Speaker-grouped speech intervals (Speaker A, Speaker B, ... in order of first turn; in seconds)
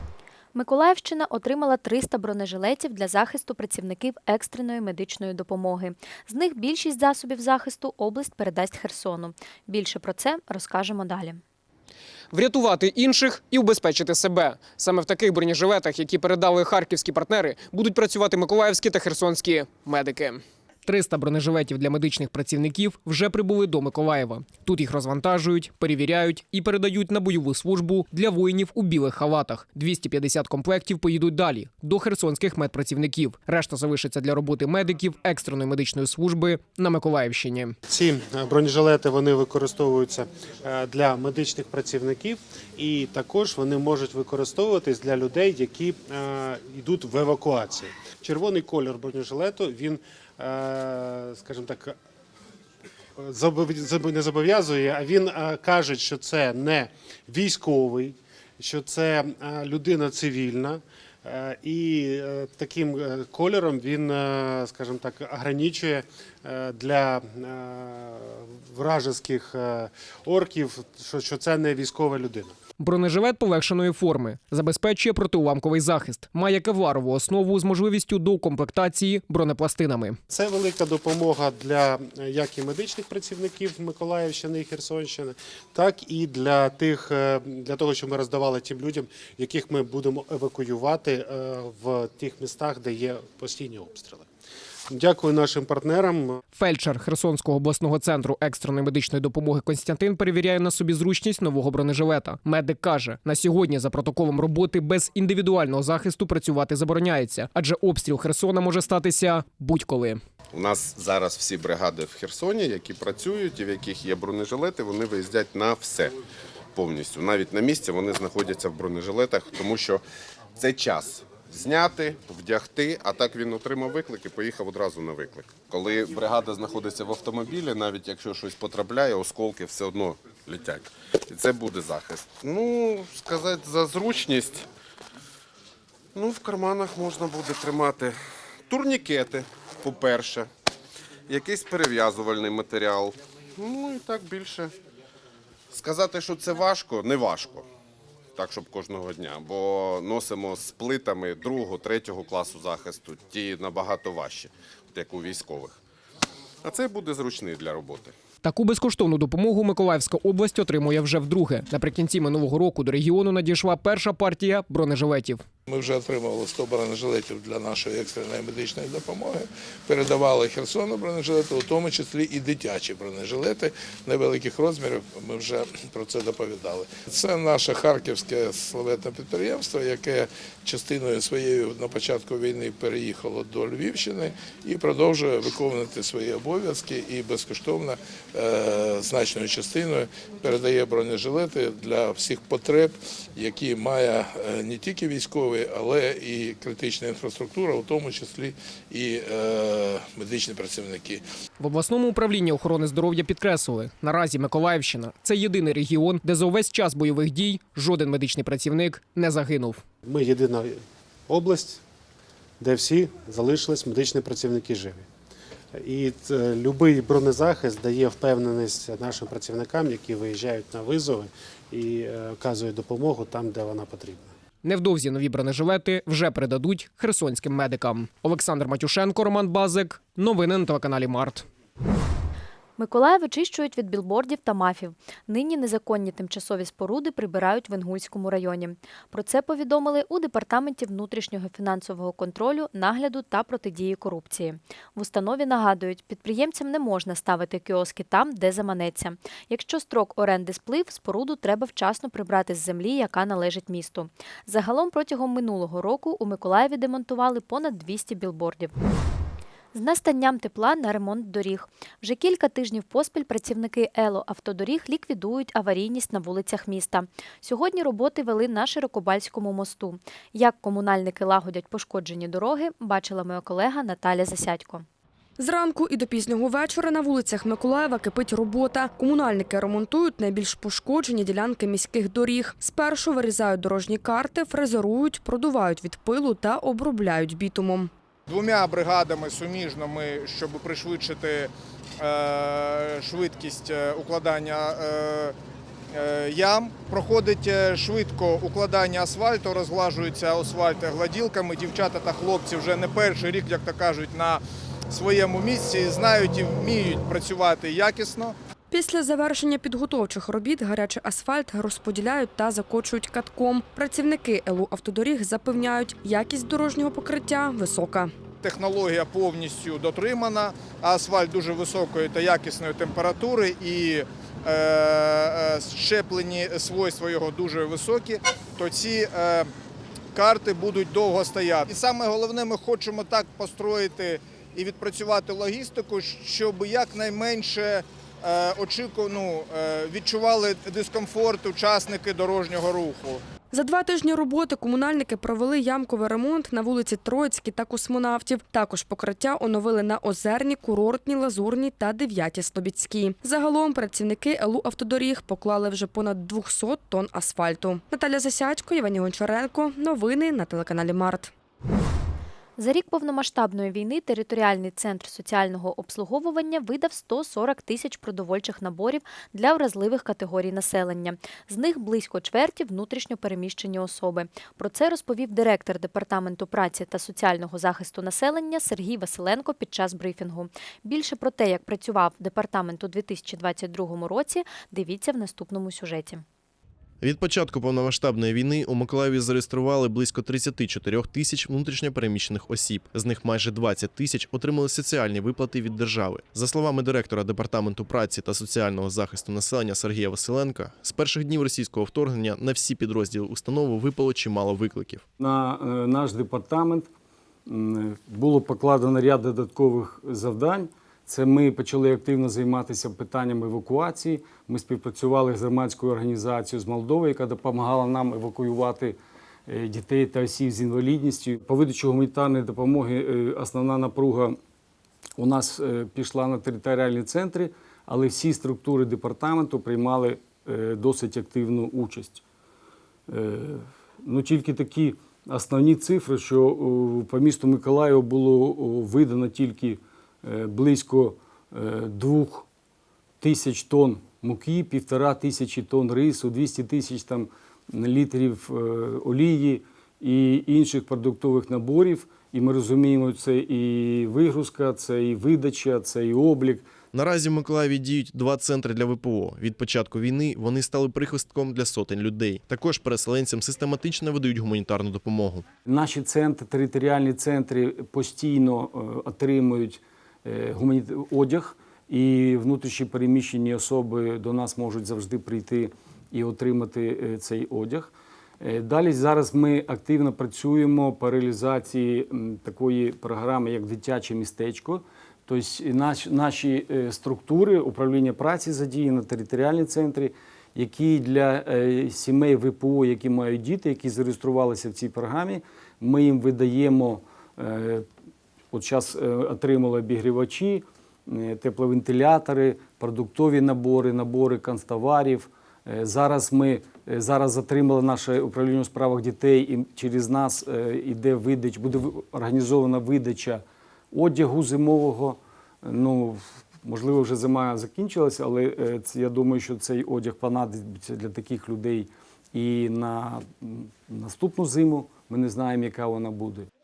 Speaker A: 0.5-11.4, 232.8-258.7, 259.7-274.9, 362.6-386.2
Speaker B: 12.3-37.8, 72.8-80.2, 96.5-110.2, 158.4-165.4, 201.6-209.8, 224.6-231.5
Speaker C: 37.9-52.0, 53.2-72.5, 80.3-94.3, 94.9-96.4, 210.0-210.8, 211.3-211.8, 212.6-215.1, 215.8-224.3
Speaker D: 110.5-116.2, 116.8-120.0, 120.6-134.7, 136.2-138.2, 138.7-140.5, 141.3-144.7, 145.7-147.7, 148.3-155.8, 156.6-158.1
Speaker E: 165.7-201.2
Speaker F: 275.4-287.9, 308.7-318.1, 343.5-361.3
Speaker G: 288.3-295.4, 295.9-308.4, 318.4-329.5, 330.1-343.2
Speaker H: 387.0-405.0, 456.9-465.4
Speaker I: 405.2-406.9, 407.5-419.0, 419.5-424.4, 425.2-432.2, 433.1-442.5, 443.2-456.7, 465.7-497.9, 498.5-526.5